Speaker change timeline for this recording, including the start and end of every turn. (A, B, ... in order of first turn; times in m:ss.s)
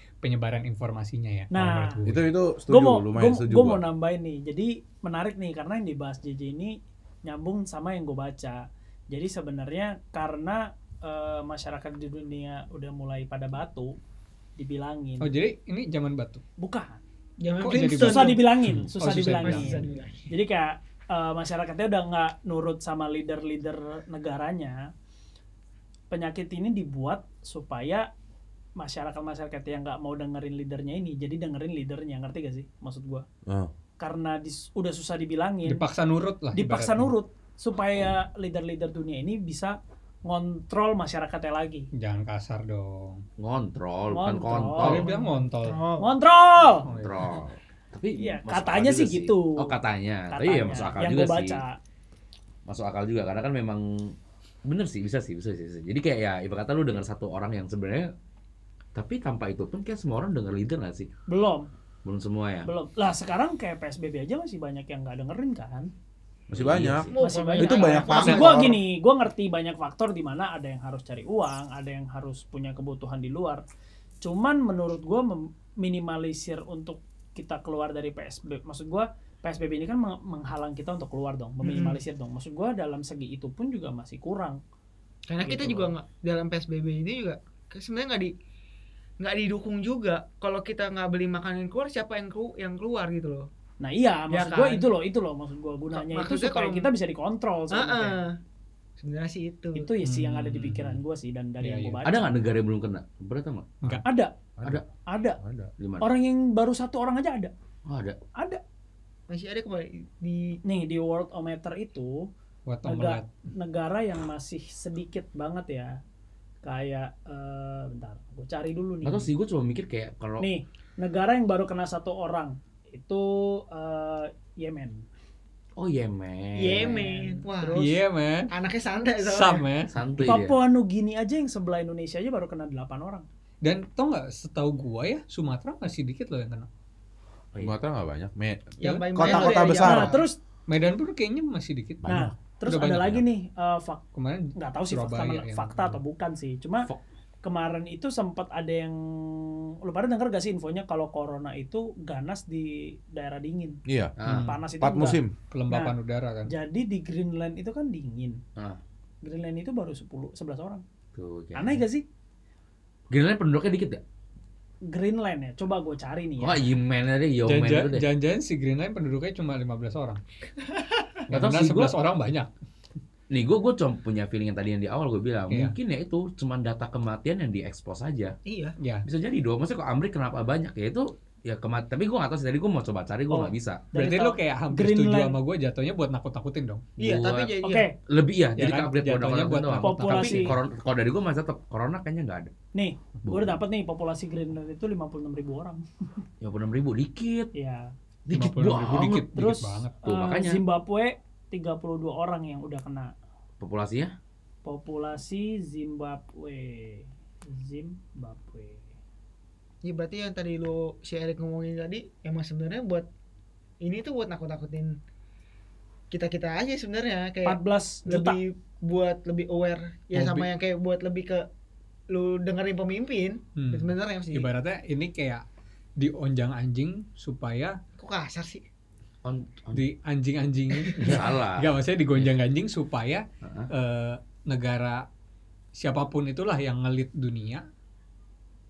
0:00.2-0:02.2 A
0:01.5-0:02.0 B
0:02.0-0:03.8 C
0:02.7-0:14.0 B
0:14.6-0:15.3 B
0:15.2-0:16.4 A
0:16.6-0:17.0 B
0:17.4-0:18.4 D
0:17.6-0:19.8 A
0:17.7-0:24.8 B
0:19.3-0:20.3 D
0:26.1-0:28.1 B
0:28.8-0:33.2 B
0:33.5-0:33.7 C
0:34.0-0:35.8 B
0:35.6-0:37.1 A
0:36.5-0:41.9 B
0:42.0-0:43.2 A
0:43.4-0:45.1 E
0:44.1-0:45.1 B
0:44.8-0:45.8 A
0:45.0-0:46.2 D
0:46.0-0:46.9 B
0:46.8-0:47.3 A
0:46.9-0:51.6 E
0:48.2-0:49.7 B
0:50.3-0:51.8 B
0:52.7-0:54.2 E
0:54.7-0:58.1 E
0:59.0-1:01.1 E
1:01.3-1:01.7 B
1:02.0-1:02.7 E
1:02.6-1:05.9 B
1:06.5-1:08.8 C
1:06.5-1:07.2 E
1:07.1-1:08.8 D
1:07.2-1:13.6 B
1:14.2-1:24.6 B
1:21.6-1:22.0 D
1:25.3-1:28.3 D
1:25.4-1:25.9 B
1:29.2-1:33.5 D
1:33.8-1:38.2 B
1:34.3-1:34.9 D
1:35.9-1:36.9 D
1:37.7-1:38.4 D
1:39.0-1:39.9 D
1:39.8-1:42.4 B
1:40.0-1:41.0 A
1:41.6-1:42.0 A
1:42.0-1:43.8 E
1:44.0-1:44.3 B
1:44.6-1:44.8 C
1:45.1-1:45.4 B
1:45.4-1:45.7 C
1:45.8-1:46.1 E
1:46.0-1:47.5 B
1:47.9-1:48.2 E
1:48.4-1:48.6 B
1:49.3-1:50.6 D
1:50.6-1:52.3 B
1:52.7-1:53.3 A
1:52.8-1:56.0 B
1:56.6-1:59.3 B
1:59.0-2:00.5 E
2:00.4-2:05.0 B
2:05.8-2:07.0 E
2:06.6-2:08.0 D
2:06.7-2:07.9 B
2:07.7-2:08.5 A
2:08.5-2:09.7 D
2:09.2-2:10.0 A
2:09.9-2:10.6 E
2:10.2-2:13.2 B
2:13.6-2:16.7 A
2:17.6-2:20.2 C
2:18.8-2:20.2 D
2:18.8-2:19.2 A
2:19.2-2:20.4 B
2:20.7-2:23.2 A
2:22.0-2:22.3 C
2:22.1-2:26.9 B
2:24.2-2:26.0 A
2:27.4-2:33.8 B
2:33.9-2:34.1 C
2:34.2-2:34.5 E
2:34.2-2:34.6 A
2:34.4-2:36.0 B
2:34.8-2:35.3 C
2:35.5-2:36.5 A
2:36.5-2:38.4 B
2:39.2-2:40.8 B
2:41.2-2:41.8 E
2:41.5-2:42.0 B
2:43.1-2:44.0 E
2:44.9-2:46.7 B
2:46.4-2:48.0 E
2:47.5-2:50.2 A
2:50.8-2:51.0 D
2:51.3-2:52.5 A
2:51.3-2:51.9 E
2:53.3-2:58.4 E
2:55.5-2:55.8 A
2:58.5-2:58.8 D
2:58.8-2:59.0 A
2:59.1-3:03.8 E
3:03.3-3:05.4 B
3:04.0-3:06.8 A
3:07.0-3:07.9 D
3:07.0-3:12.5 E
3:07.6-3:07.9 B
3:08.6-3:10.6 A
3:09.8-3:10.5 B
3:12.7-3:16.2 B
3:13.3-3:13.6 E
3:16.4-3:17.5 E
3:17.6-3:17.9 B
3:18.3-3:19.3 E
3:18.3-3:19.9 A
3:19.3-3:23.1 B
3:20.0-3:20.6 E
3:23.6-3:24.1 E
3:24.6-3:28.9 B
3:29.8-3:33.1 D
3:33.8-3:35.0 D
3:36.1-3:41.4 D
3:37.4-3:38.4 B
3:40.1-3:40.5 A
3:42.1-3:44.5 D
3:43.6-3:45.4 A
3:46.0-3:47.8 A
3:48.0-3:48.6 D
3:49.2-3:49.8 E
3:49.7-3:55.0 A
3:50.8-3:51.1 D
3:51.0-3:52.3 E
3:53.4-3:53.7 E
3:55.8-3:57.7 A